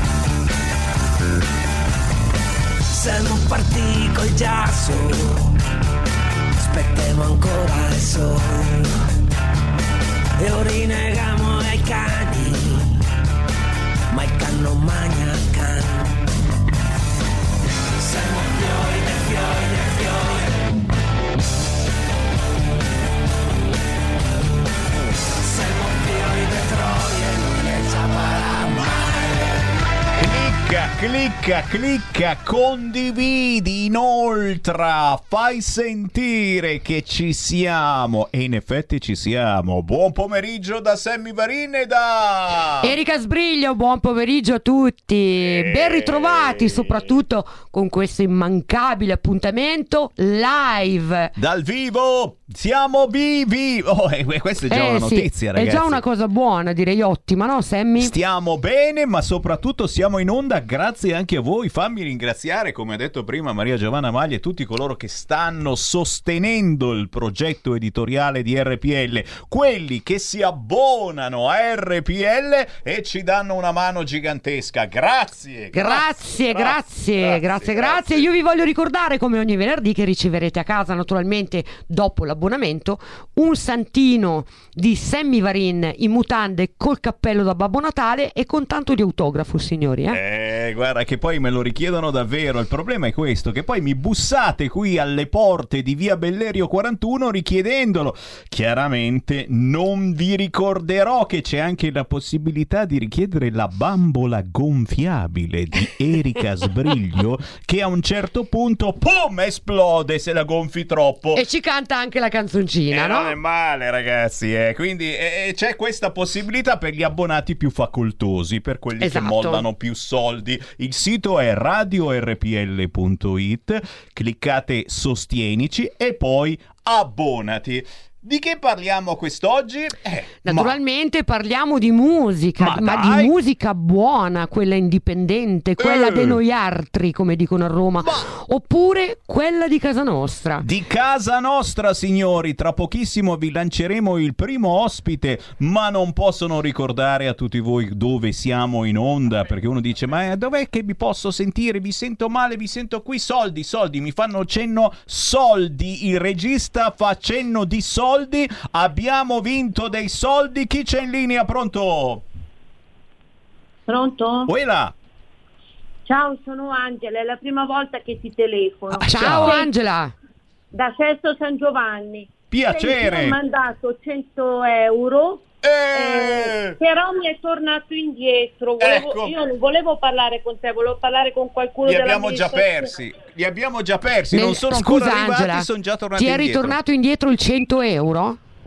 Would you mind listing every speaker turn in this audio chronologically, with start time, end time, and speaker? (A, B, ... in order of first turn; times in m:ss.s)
0:02.9-0:05.5 A
0:06.6-0:08.9 A
0:10.4-0:12.9 A
0:14.1-0:16.1 A
0:17.9-0:20.6 A
0:25.3-0:29.4 A
0:30.2-0:43.0 B
0:42.8-0:51.3 C
0:45.3-0:47.2 B
0:51.4-0:56.0 B
0:54.7-0:58.1 C
0:58.0-1:18.3 B
1:15.7-1:30.2 C
1:30.1-1:51.4 B
1:51.3-1:53.4 C
1:52.9-2:10.8 B
1:59.0-1:59.6 C
2:10.4-2:20.6 C
2:12.6-2:13.3 B
2:15.8-2:16.4 B
2:18.0-2:18.3 B
2:20.6-2:42.2 B
2:43.9-2:44.5 D
2:44.5-2:44.9 B
2:46.0-2:49.7 D
2:48.9-2:49.6 B
2:49.1-2:50.1 C
2:50.7-3:02.9 D
2:52.5-2:53.4 B
2:55.6-2:56.8 B
2:58.8-2:59.4 B
3:01.8-3:06.8 B
3:04.3-3:08.4 C